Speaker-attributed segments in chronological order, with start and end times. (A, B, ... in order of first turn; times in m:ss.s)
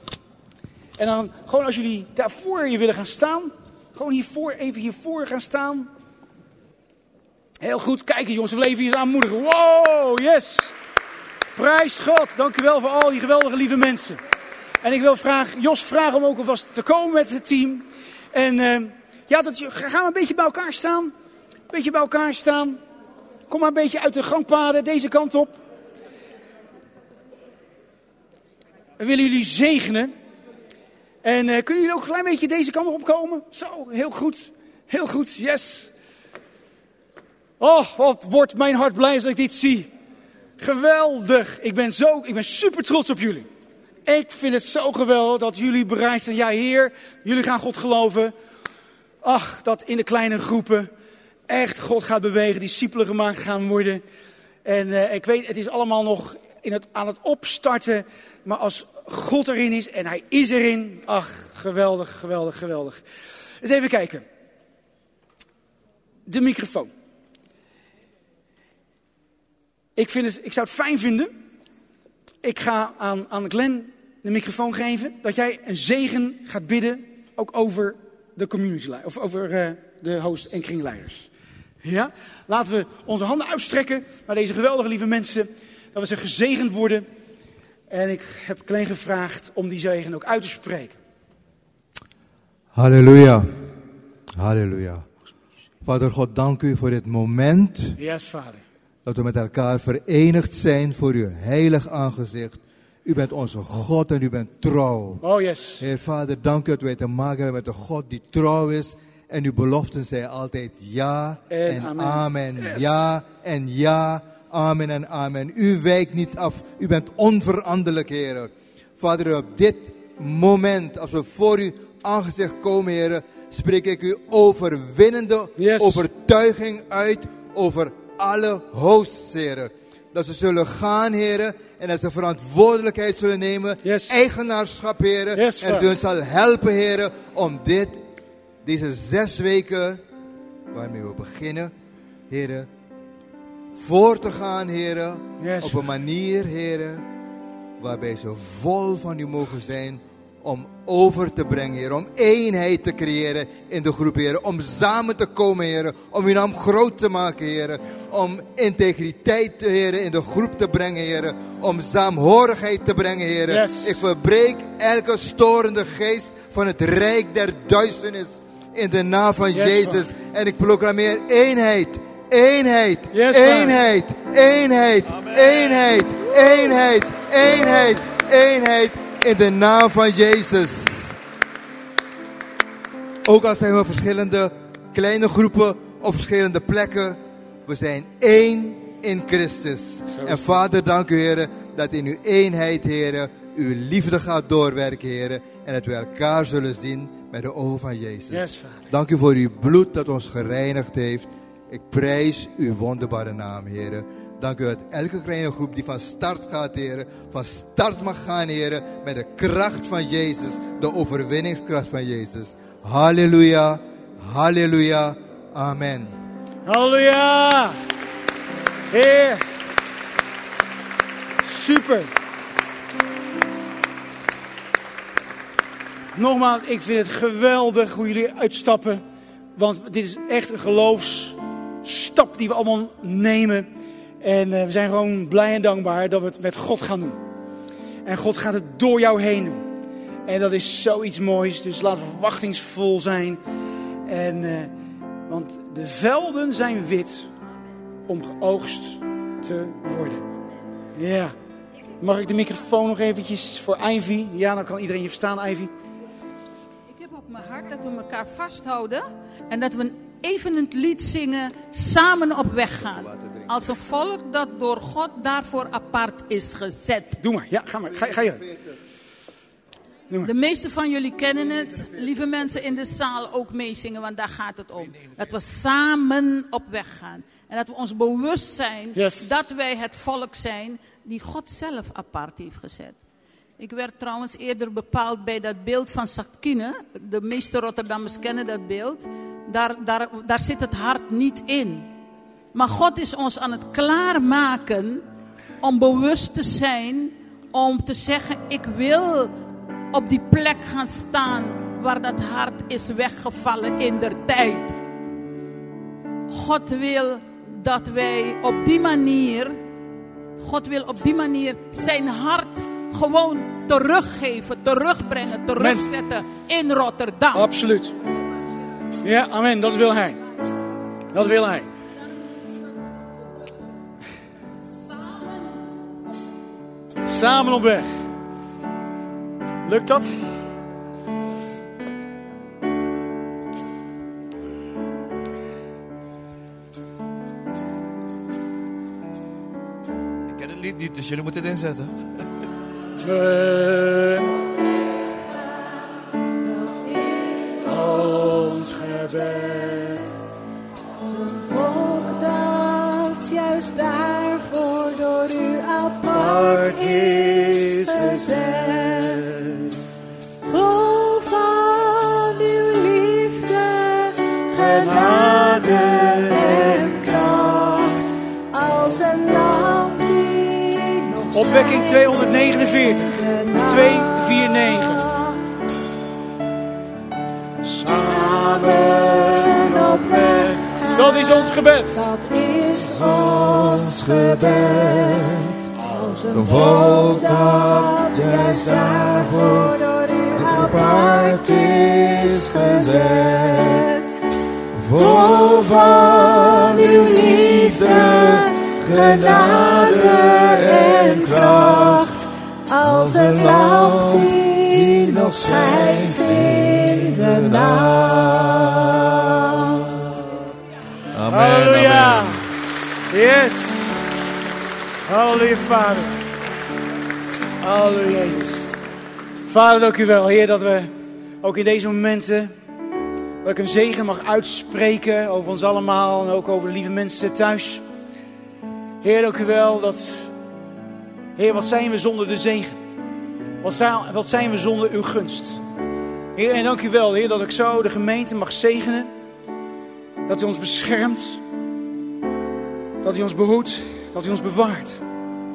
0:01.0-0:05.9 A
0:07.6-0:10.7 A
0:11.5-0:14.2 A
0:14.8-0:21.1 A
0:21.7-0:22.8 A
0:23.5-0:25.6 A
0:29.0-0:30.1 A
0:31.2-0:35.9 A
0:37.6-0:39.9 A
0:40.6-0:43.5 A
0:44.0-0:48.3 A
0:49.2-0:50.9 A
0:51.5-0:54.0 A
0:54.6-1:03.0 A
1:03.6-1:04.2 A
1:06.2-1:06.9 A
1:10.0-1:11.3 A
1:12.4-1:21.3 A
1:21.8-1:27.1 A
1:27.9-1:31.0 A
1:32.7-1:33.5 B
1:34.4-1:35.0 B
1:35.8-1:38.0 B
1:38.0-1:38.6 A
1:39.0-1:45.2 B
1:45.2-1:45.8 A
1:45.8-2:18.0 B
1:51.5-1:52.9 A
2:05.6-2:06.0 A
2:13.8-2:14.1 A
2:15.3-2:15.9 A
2:18.6-2:20.0 B
2:20.7-2:21.7 B
2:22.3-2:22.7 B
2:23.8-2:27.0 B
2:25.4-2:25.8 A
2:27.8-3:01.2 B
2:43.5-2:44.0 A
2:49.5-2:50.0 A
2:53.1-2:53.8 A
3:03.2-3:36.1 B
3:10.1-3:10.5 A
3:18.3-3:18.9 A
3:36.6-3:37.8 A
3:38.9-3:39.4 A
3:41.4-3:42.1 A
3:46.1-3:49.0 A
3:49.6-3:53.7 A
3:54.2-3:57.2 A
3:58.0-3:59.6 A
4:00.2-4:03.4 A
4:04.0-4:04.7 A
4:05.3-4:07.3 A
4:08.1-4:10.2 A
4:11.0-4:11.3 A
4:12.0-4:15.7 A
4:16.9-4:27.2 C
4:27.2-4:28.4 A
4:30.2-4:43.0 C
4:38.9-4:39.3 A
4:43.6-4:51.9 C
4:52.5-4:55.0 C
4:55.6-4:59.3 C
4:59.9-5:04.8 C
5:06.3-5:09.6 C
5:10.4-5:17.5 C
5:15.6-5:15.8 A
5:17.3-5:17.9 A
5:19.0-5:20.2 A
5:21.1-5:21.7 A
5:27.0-5:27.9 A
5:29.6-5:30.3 A
5:40.3-5:42.3 D
5:43.0-5:44.3 A
5:46.6-5:50.1 E
5:47.7-5:50.0 A
5:51.1-5:59.6 E
5:56.1-5:58.2 A
6:00.4-6:15.5 E
6:05.0-6:06.5 A
6:11.3-6:15.1 A
6:17.6-6:34.1 E
6:20.9-6:22.1 A
6:23.4-6:23.9 B
6:26.3-6:29.6 B
6:30.4-6:33.6 B
6:34.8-6:38.3 B
6:34.9-6:49.9 E
6:38.9-6:42.0 B
6:43.0-6:44.3 B
6:45.2-6:48.2 B
6:51.1-6:52.4 B
6:51.3-6:52.4 A
6:53.1-6:54.0 A
6:55.1-6:56.2 A
6:57.6-6:58.7 A
6:59.5-7:02.5 A
7:03.4-7:07.8 A
7:09.0-7:10.3 A
7:11.4-7:12.8 A
7:13.6-7:15.6 A
7:16.3-7:19.1 A
7:20.3-7:21.4 A
7:23.0-7:25.0 A